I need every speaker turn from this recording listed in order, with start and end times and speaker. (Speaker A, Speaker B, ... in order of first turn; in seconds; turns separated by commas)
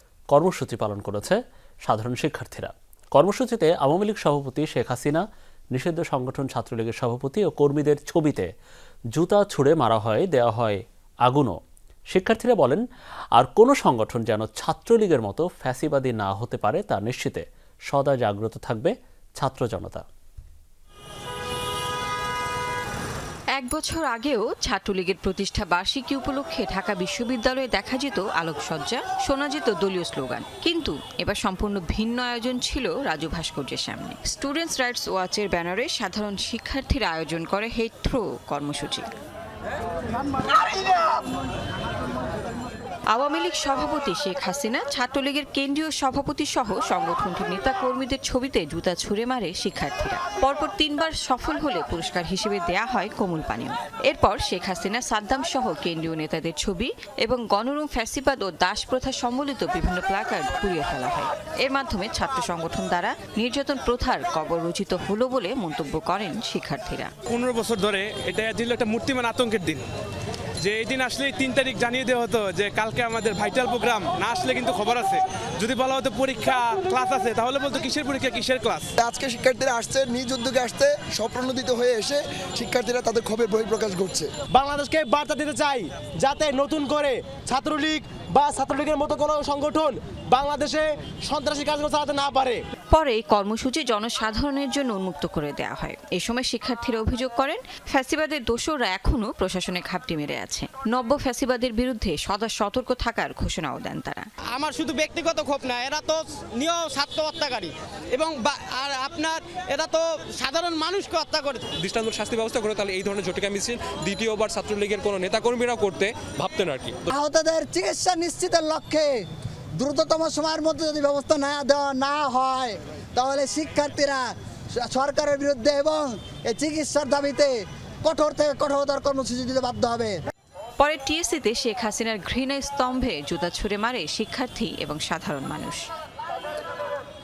Speaker A: 0.3-8.5, Speaker A: 9.1-11.6, Speaker A: 12.1-12.8, Speaker A: 13.3-20.1, Speaker B: 23.6-39.1, Speaker B: 43.1-67.1, Speaker C: 67.3-69.9, Speaker C: 70.6-78.9, Speaker D: 79.0-84.3, Speaker E: 84.5-92.6, Speaker B: 92.9-104.3, Speaker F: 104.5-111.7, Speaker G: 111.8-117.0, Speaker H: 117.1-119.2, Speaker H: 119.8-130.2, Speaker B: 130.8-135.9